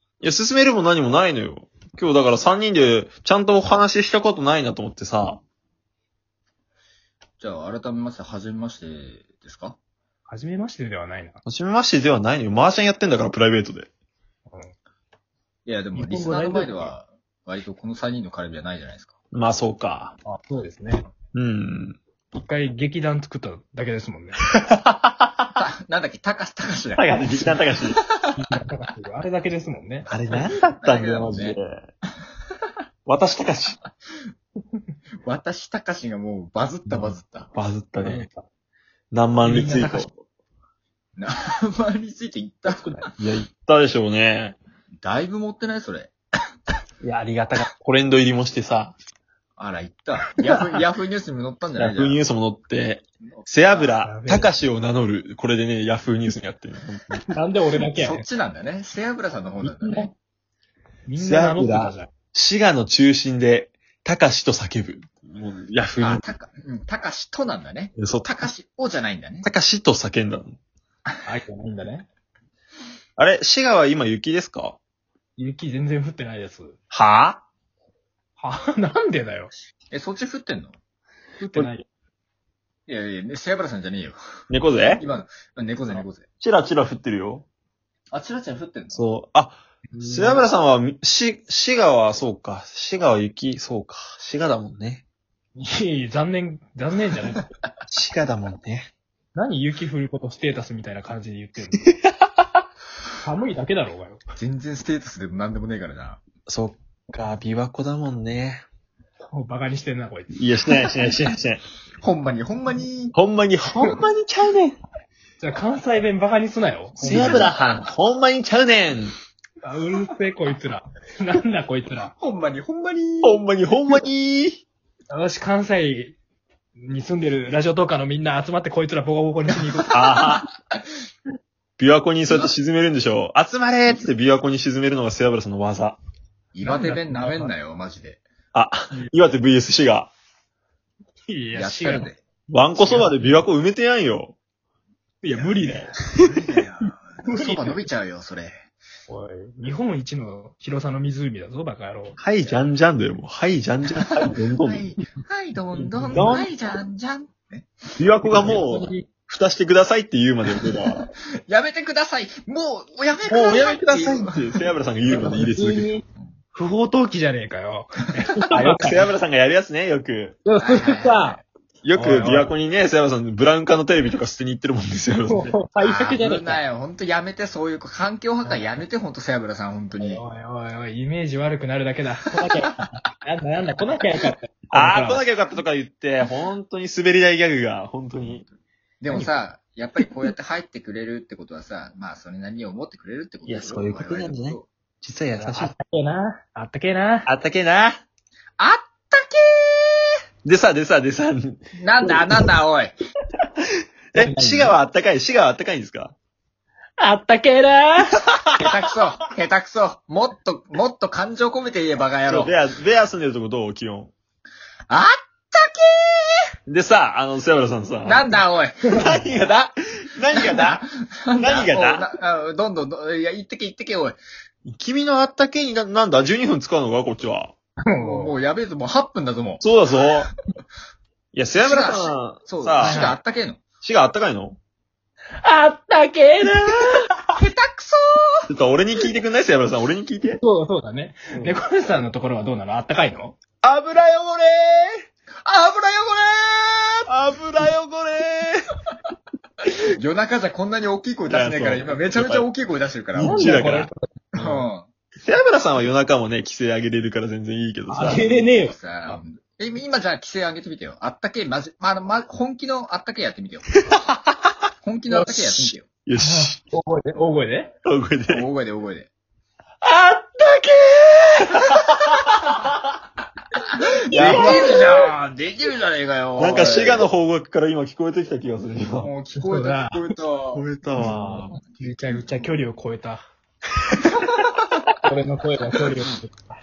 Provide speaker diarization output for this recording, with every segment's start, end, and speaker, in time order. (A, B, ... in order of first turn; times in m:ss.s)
0:00.2-0:05.4 A
0:07.4-0:09.8 B
0:10.3-0:11.4 C
0:11.5-0:13.9 A
0:15.7-0:19.2 B
0:15.9-0:16.9 C
0:19.3-0:20.2 A
0:20.2-0:21.1 C
0:21.3-0:22.0 A
0:22.3-0:24.4 C
0:24.5-0:25.6 A
0:25.6-0:28.4 B
0:27.0-0:28.0 A
0:28.4-0:30.1 C
0:30.1-0:31.9 A
0:30.7-0:31.6 B
0:33.0-0:33.8 A
0:35.2-0:37.5 B
0:36.9-0:37.2 C
0:37.5-0:38.3 A
0:38.0-0:38.4 C
0:39.1-0:40.1 A
0:39.4-0:40.1 C
0:41.2-0:43.1 B
0:42.7-0:43.0 C
0:43.2-0:44.6 A
0:45.0-0:46.1 B
0:47.0-0:49.0 A
0:49.6-0:52.2 B
0:50.3-0:50.8 C
0:51.8-0:57.3 A
0:53.4-0:53.9 B
0:54.0-0:54.5 C
0:57.3-0:58.2 C
0:57.8-1:00.1 B
0:59.6-1:00.1 C
1:01.1-1:02.1 C
1:01.2-1:06.2 A
1:06.0-1:09.5 B
1:08.0-1:08.4 A
1:09.4-1:10.6 A
1:11.2-1:12.1 C
1:13.2-1:14.8 A
1:15.4-1:16.8 C
1:16.9-1:17.4 A
1:18.4-1:19.5 C
1:19.9-1:20.7 B
1:21.4-1:21.9 C
1:22.9-1:24.2 B
1:24.5-1:25.0 A
1:25.0-1:26.2 B
1:26.4-1:27.5 A
1:28.1-1:29.0 B
1:28.9-1:35.0 A
1:29.9-1:30.4 C
1:35.6-1:37.5 C
1:37.9-1:38.9 A
1:39.4-1:42.0 C
1:43.2-1:44.2 C
1:44.4-1:46.2 B
1:46.5-1:48.6 A
1:49.3-1:50.4 C
1:50.3-1:51.6 A
1:52.0-1:53.2 B
1:53.1-1:54.8 A
1:55.4-1:57.5 C
1:57.0-1:59.2 A
1:57.1-1:57.4 B
1:59.6-2:02.1 C
2:02.1-2:03.4 B
2:03.2-2:04.6 A
2:05.1-2:06.2 C
2:06.8-2:10.3 C
2:09.9-2:10.5 A
2:11.8-2:16.0 A
2:16.5-2:18.2 B
2:16.6-2:17.5 C
2:18.5-2:20.1 A
2:21.3-2:22.1 C
2:21.5-2:22.2 B
2:22.5-2:24.4 A
2:22.8-2:23.4 C
2:25.2-2:26.1 C
2:25.3-2:28.6 B
2:27.2-2:27.8 C
2:29.1-2:32.2 C
2:32.2-2:34.9 A
2:34.0-2:37.7 B
2:35.7-2:36.3 C
2:36.1-2:36.5 A
2:38.0-2:41.1 A
2:38.3-2:39.0 C
2:41.5-2:44.6 B
2:43.3-2:45.9 A
2:45.1-2:49.1 C
2:48.5-2:50.4 A
2:50.4-2:51.4 C
2:50.6-2:51.4 B
2:51.8-2:55.6 A
2:51.9-2:52.5 C
2:55.1-2:56.6 C
2:55.8-3:00.2 B
2:58.4-2:58.8 C
3:00.0-3:05.2 C
3:04.7-3:08.5 A
3:09.0-3:14.7 B
3:13.5-3:15.7 A
3:15.4-3:17.3 C
3:17.3-3:18.0 A
3:18.6-3:20.1 B
3:20.4-3:21.6 A
3:21.8-3:23.0 B
3:24.1-3:26.2 A
3:24.2-3:24.8 C
3:27.0-3:28.2 C
3:28.6-3:32.5 B
3:32.3-3:34.1 A
3:34.9-3:36.3 B
3:36.7-3:38.3 A
3:38.0-3:39.4 B
3:38.9-3:40.8 A
3:40.3-3:44.2 B
3:41.4-3:42.1 A
3:44.6-3:47.5 A
3:47.9-3:48.3 C
3:48.0-3:49.6 B
3:49.6-3:50.3 A
3:51.3-3:53.1 A
3:51.6-3:53.6 B
3:52.8-3:53.2 C
3:53.8-3:54.6 A
3:55.4-3:57.1 C
3:57.4-3:58.5 B
3:58.5-4:00.4 A
4:00.4-4:03.4 C
4:03.6-4:05.0 A
4:05.4-4:07.0 B
4:07.1-4:08.7 A
4:09.9-4:13.4 B
4:11.3-4:12.5 A
4:13.2-4:13.9 A
4:13.2-4:14.7 C
4:14.4-4:14.9 B
4:15.2-4:18.2 A
4:17.9-4:18.8 C
4:18.0-4:23.7 B
4:24.8-4:25.9 B
4:25.3-4:26.6 A
4:26.2-4:27.7 C
4:27.8-4:28.4 A
4:28.3-4:29.1 B
4:29.8-4:31.4 C
4:34.1-4:34.9 A
4:34.1-4:37.1 B
4:36.4-4:39.1 A
4:39.0-4:40.7 B
4:39.4-4:40.1 C
4:40.5-4:41.6 A
4:41.0-4:43.2 C
4:44.1-4:44.4 B
4:45.0-4:46.4 C